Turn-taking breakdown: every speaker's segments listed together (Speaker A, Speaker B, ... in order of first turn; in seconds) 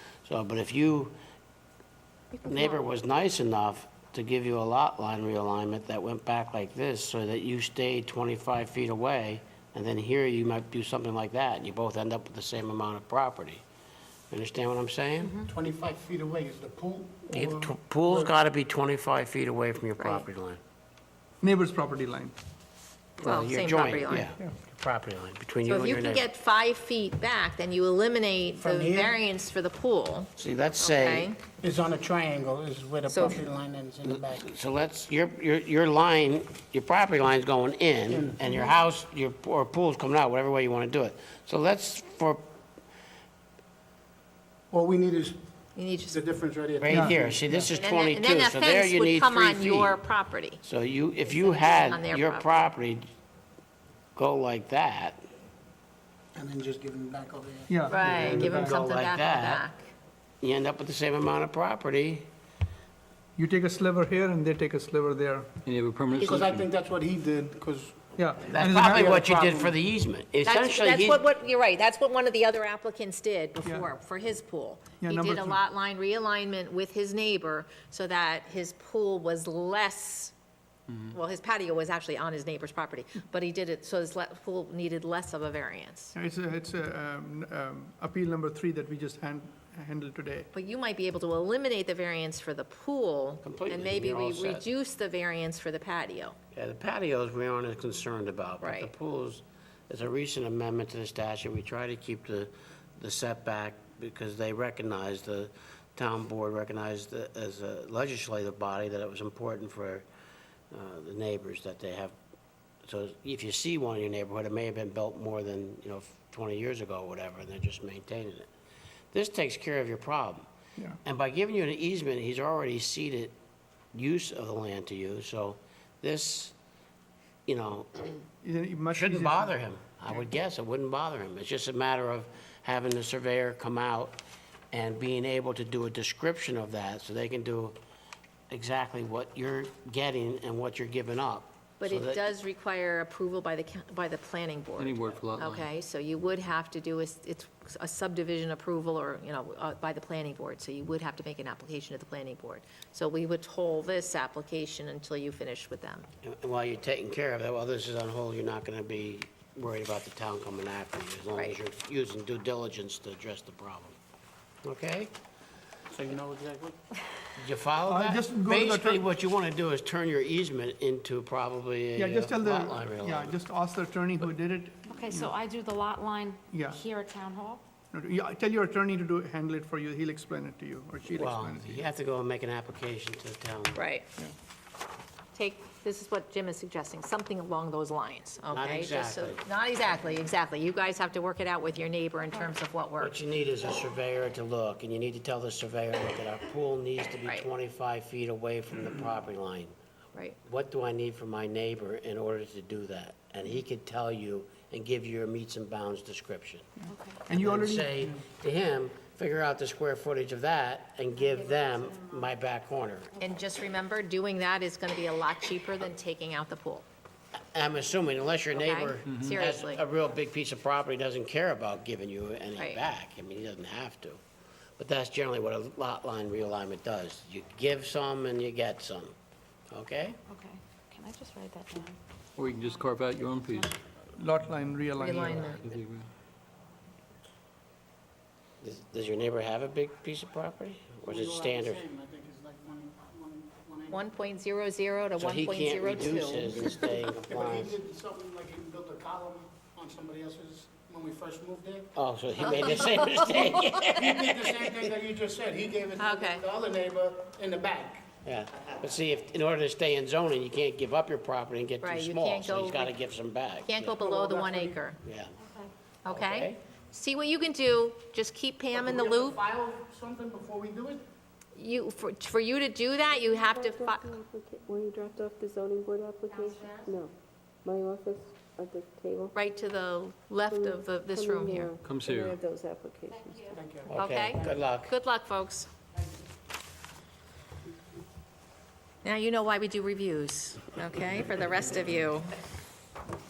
Speaker A: 0.2-1.1, 2.4-13.6, 14.3-15.3, 17.3-20.6, 23.2-26.2, 30.4-31.3, 34.0-42.4, 46.8-50.0, 50.6-53.1, 54.1-55.2, 58.0-59.6, 60.4-62.3, 68.5-71.2, 93.4-94.7, 96.5-110.0, 110.7-112.2, 112.8-118.5, 119.1-120.5, 121.0-123.3, 123.9-126.5, 127.5-128.1, 128.9-137.8, 138.5-142.3, 156.2-164.0, 164.6-165.1, 167.3-173.4, 181.1-183.8, 188.5-189.4, 193.0-199.7, 200.4-206.7, 207.3-213.1, 217.5-224.2, 224.8-229.1, 229.7-230.2, 238.6-241.8, 245.2-247.8, 251.9-254.8, 258.2-264.0, 265.0-265.4, 266.1-266.6, 283.9-284.9
Speaker B: 15.2-15.5, 174.9-177.6, 206.9-207.2, 230.3-233.7, 276.3-276.9
Speaker C: 15.4-18.3, 28.5-29.1, 31.6-34.5, 38.1-38.5, 44.7-45.4, 46.1-47.7, 56.3-58.4, 66.2-69.7, 165.9-166.8, 241.0-244.0, 246.7-251.9, 252.5-258.1, 264.0-264.8, 268.7-271.0, 283.5-284.5
Speaker D: 20.0-20.2, 23.2-24.3, 25.6-31.4, 33.1-33.4, 45.8-46.2, 47.7-50.6, 51.2-52.7, 57.9-59.9, 70.4-80.3, 80.9-86.1, 90.5-96.4, 98.6-98.9, 141.8-156.1, 183.7-184.1, 185.3-193.2, 213.2-216.8, 218.5-219.8, 235.0-235.6, 243.9-246.7, 256.0-256.4, 261.8-262.9, 263.6-265.0, 266.0-269.4, 271.6-274.2, 279.3-281.7, 283.9-285.7, 289.0-292.3
Speaker E: 21.4-22.3, 46.9-47.1, 57.7-58.8, 63.4-65.5, 68.2-69.2, 73.6-73.9, 75.0-75.6, 86.1-90.5, 128.4-129.6, 167.8-169.0, 171.9-175.3, 176.5-176.8, 177.9-181.8, 206.9-208.2, 234.2-235.5
Speaker F: 65.6-66.7, 144.8-145.7, 232.4-233.7, 235.5-236.1, 281.8-282.4
Speaker G: 273.4-277.1, 277.6-279.3, 280.5-283.4